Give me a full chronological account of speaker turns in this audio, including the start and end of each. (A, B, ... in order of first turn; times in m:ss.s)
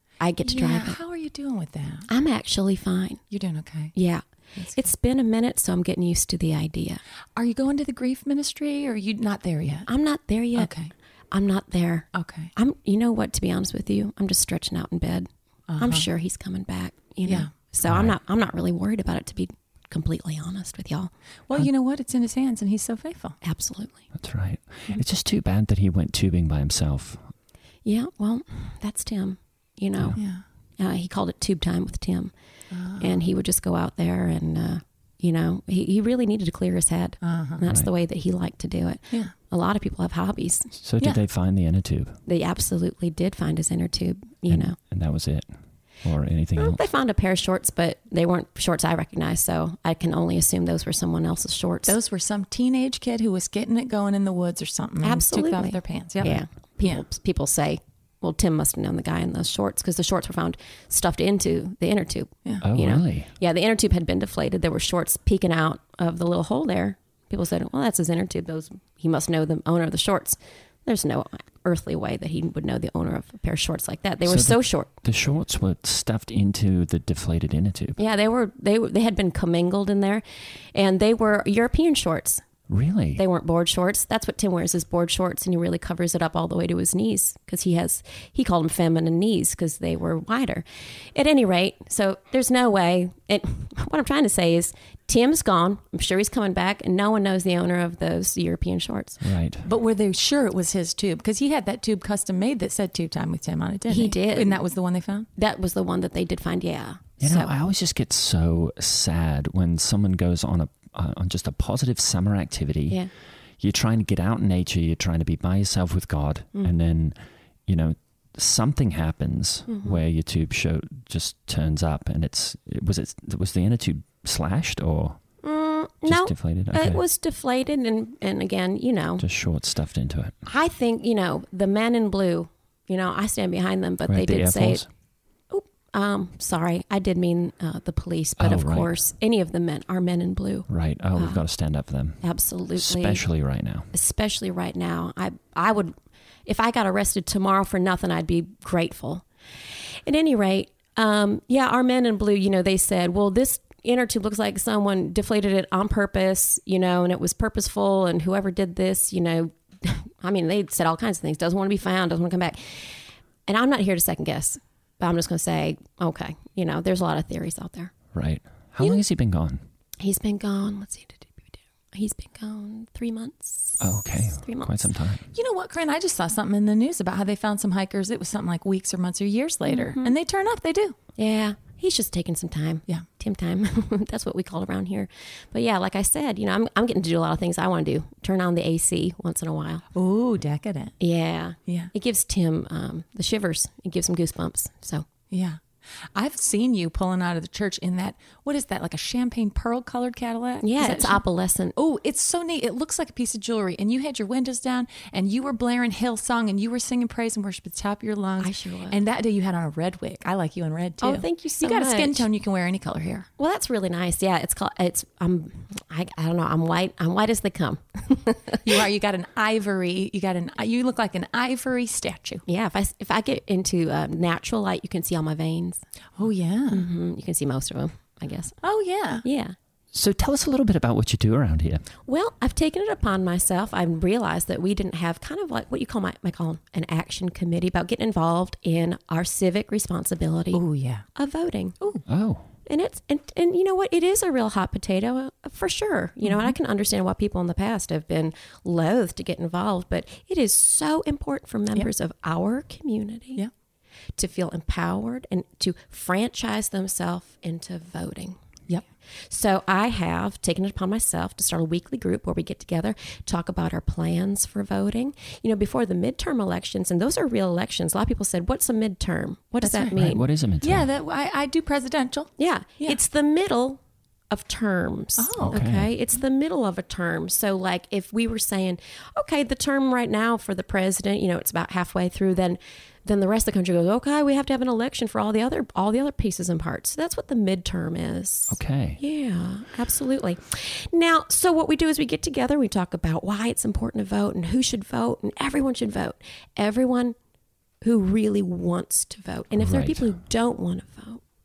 0:00.2-0:01.0 A
0:00.4-0:02.1 B
0:02.1-0:03.2 A
0:03.3-0:03.9 B
0:03.9-0:04.2 A
0:04.6-0:04.9 B
0:04.7-0:07.0 A
0:07.4-0:09.9 B
0:09.9-0:10.7 A
0:10.5-0:10.9 B
0:11.3-0:21.1 A
0:12.1-0:12.5 B
0:15.7-0:16.1 B
0:17.8-0:18.1 C
0:21.5-0:23.4 B
0:23.4-0:24.0 A
0:24.1-0:27.3 C
0:27.8-0:30.2 A
0:30.2-0:30.4 B
0:30.8-0:32.3 A
0:32.7-0:33.2 B
0:33.0-0:40.7 A
0:37.2-0:37.6 B
0:37.6-0:37.9 C
0:40.8-0:42.2 C
0:42.3-0:44.8 A
0:44.5-0:45.5 C
0:46.0-0:46.8 C
0:46.6-0:51.9 A
0:51.8-0:57.0 B
0:55.0-1:14.9 A
1:02.6-1:03.3 C
1:14.2-1:18.0 C
1:18.0-1:20.2 A
1:20.7-1:22.4 A
1:22.7-1:23.2 C
1:23.2-1:39.2 A
1:39.2-1:39.6 C
1:39.6-1:45.3 B
1:43.9-1:44.6 A
1:45.4-1:47.5 A
1:47.2-1:53.0 C
1:53.6-2:05.2 C
1:59.7-2:00.0 A
2:05.4-2:09.2 A
2:06.0-2:07.0 C
2:09.2-2:10.3 C
2:10.4-2:14.8 A
2:14.0-2:14.9 C
2:15.5-2:21.4 A
2:18.4-2:18.9 C
2:20.7-2:22.2 C
2:22.2-2:23.2 A
2:22.8-2:23.9 C
2:23.9-2:25.9 A
2:26.4-2:29.2 A
2:30.0-2:43.0 A
2:43.5-2:47.9 A
2:48.1-2:49.6 C
2:50.0-2:54.8 A
2:53.8-2:55.2 C
2:55.3-3:00.9 B
2:59.7-3:00.1 A
3:01.2-3:09.8 A
3:09.9-3:10.9 B
3:11.0-3:15.0 A
3:11.7-3:11.9 B
3:15.3-3:15.6 B
3:16.1-3:21.2 B
3:20.6-3:21.7 A
3:21.8-3:33.3 B
3:28.4-3:29.0 A
3:31.0-3:32.2 A
3:33.4-3:38.6 A
3:38.6-3:42.4 B
3:42.5-3:45.8 A
3:46.2-3:46.8 B
3:46.7-3:48.5 A
3:48.6-3:49.2 B
3:49.2-3:49.5 A
3:49.9-3:51.9 C
3:52.1-4:00.6 A
4:00.5-4:01.0 B
4:01.2-4:01.8 A
4:02.1-4:02.4 C
4:02.6-4:13.4 A
4:06.2-4:06.5 B
4:14.2-4:18.4 A
4:19.3-4:30.2 A
4:29.6-4:30.0 B
4:29.9-4:30.9 C
4:30.6-4:33.0 B
4:32.4-4:57.2 A
4:35.2-4:35.6 B
4:35.4-4:35.9 C
4:48.5-4:49.0 C
4:57.8-5:01.2 A
4:59.5-5:00.2 C